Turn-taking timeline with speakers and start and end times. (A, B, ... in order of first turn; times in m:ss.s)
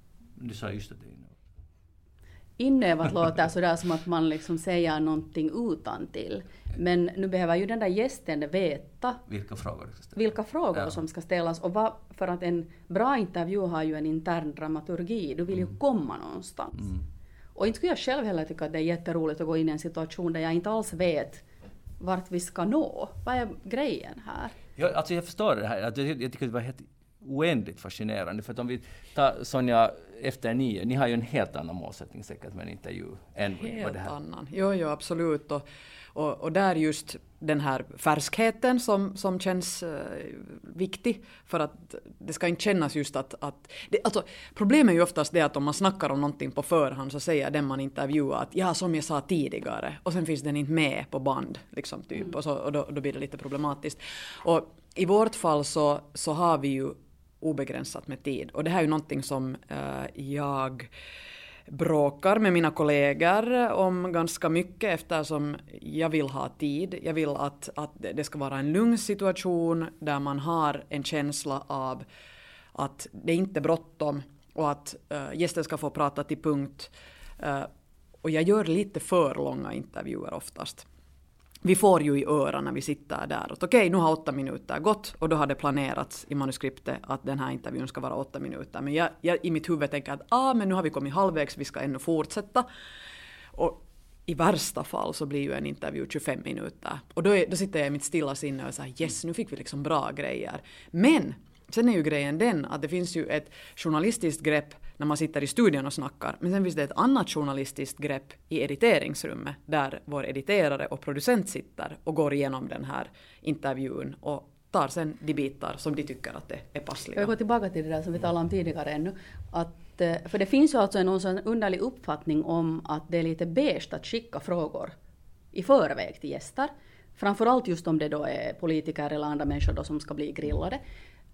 0:00.4-0:01.3 A
0:02.6-0:09.2 B
0:09.3-0:10.2 A
0:10.2-0:16.9 B
0:17.6-0:21.4 B
0:22.0-0:24.5 B
0:24.8-0:34.1 A
0:33.6-1:00.9 C
1:01.7-1:12.0 C
1:12.7-1:17.7 C
1:18.2-1:20.8 C
1:21.6-1:32.6 C
1:33.5-1:57.3 C
1:57.2-2:04.9 B
2:05.5-2:10.8 B